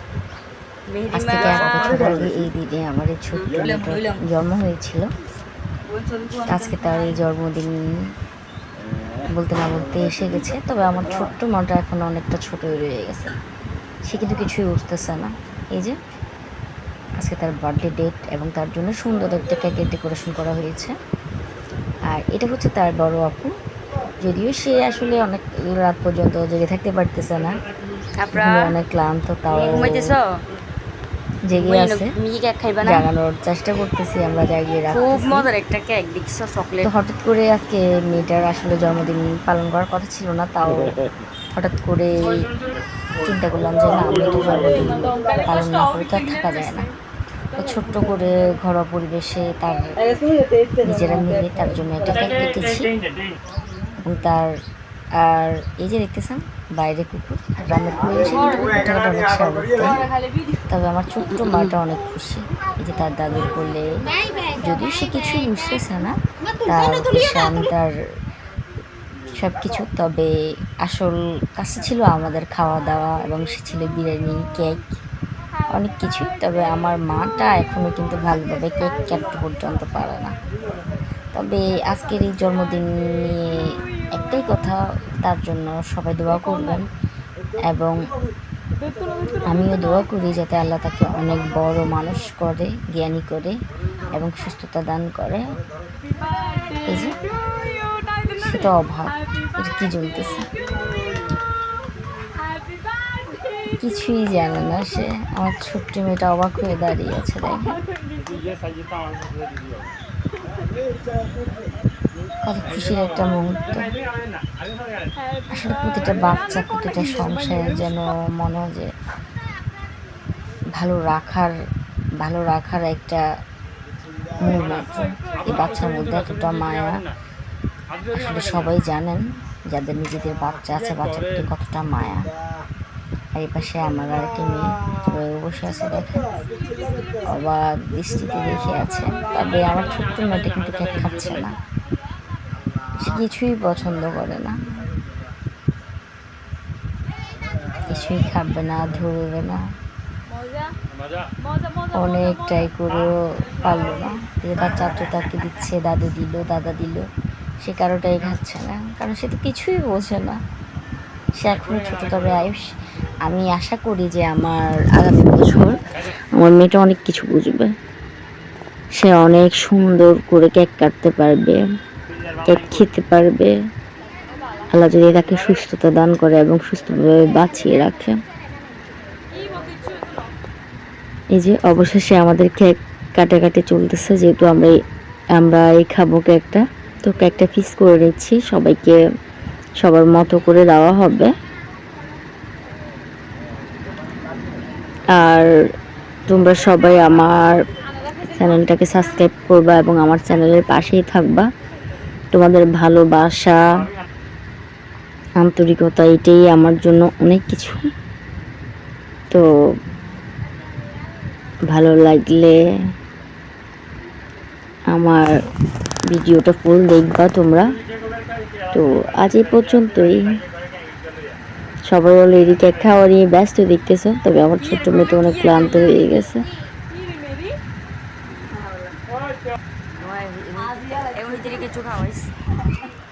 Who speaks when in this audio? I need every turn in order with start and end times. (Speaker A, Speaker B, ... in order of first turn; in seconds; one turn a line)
Speaker A: 0.9-1.7
Speaker B: 1.1-5.0
Speaker A: 5.9-7.1
Speaker B: 6.5-7.8
Speaker B: 9.3-13.3
Speaker B: 14.1-15.9
Speaker B: 17.2-20.9
Speaker B: 22.1-23.5
Speaker B: 24.2-27.5
Speaker A: 28.2-28.7
Speaker B: 28.3-30.0
Speaker A: 29.6-30.3
Speaker B: 31.5-32.1
Speaker A: 31.6-33.0
Speaker B: 32.8-35.5
Speaker A: 34.9-36.9
Speaker B: 36.8-40.9
Speaker B: 41.5-42.4
Speaker B: 43.2-46.9
Speaker B: 47.5-49.8
Speaker B: 50.8-52.9
Speaker B: 54.0-54.5
Speaker B: 55.2-60.1
Speaker B: 60.7-68.0
Speaker B: 69.3-75.0
Speaker B: 75.7-80.3
Speaker B: 81.3-86.9
Speaker B: 87.7-88.0
Speaker B: 89.4-93.5
Speaker B: 94.1-95.4
Speaker B: 96.8-97.2
Speaker B: 98.4-100.5
Speaker B: 103.8-107.8
Speaker B: 112.4-113.9
Speaker B: 115.5-118.9
Speaker B: 120.8-121.5
Speaker B: 122.2-123.2
Speaker B: 124.4-127.0
Speaker B: 128.1-132.3
Speaker B: 133.3-136.3
Speaker B: 137.2-141.6
Speaker B: 143.0-144.6
Speaker B: 147.8-149.6
Speaker B: 151.9-157.0
Speaker B: 157.6-160.4
Speaker B: 161.4-162.7
Speaker B: 163.3-165.8
Speaker B: 166.3-167.7
Speaker B: 169.0-171.6
Speaker B: 172.4-173.5
Speaker B: 174.7-178.2
Speaker B: 181.3-184.7
Speaker B: 185.4-189.0
Speaker B: 189.8-191.3
Speaker B: 195.2-195.5
Speaker B: 196.3-197.6
Speaker B: 198.3-201.4
Speaker B: 202.3-203.6
Speaker B: 205.4-207.9
Speaker B: 211.7-212.6
Speaker B: 214.9-215.3
Speaker B: 216.1-217.7
Speaker B: 218.7-220.2
Speaker B: 221.9-226.4
Speaker A: 224.6-225.8
Speaker A: 230.0-232.3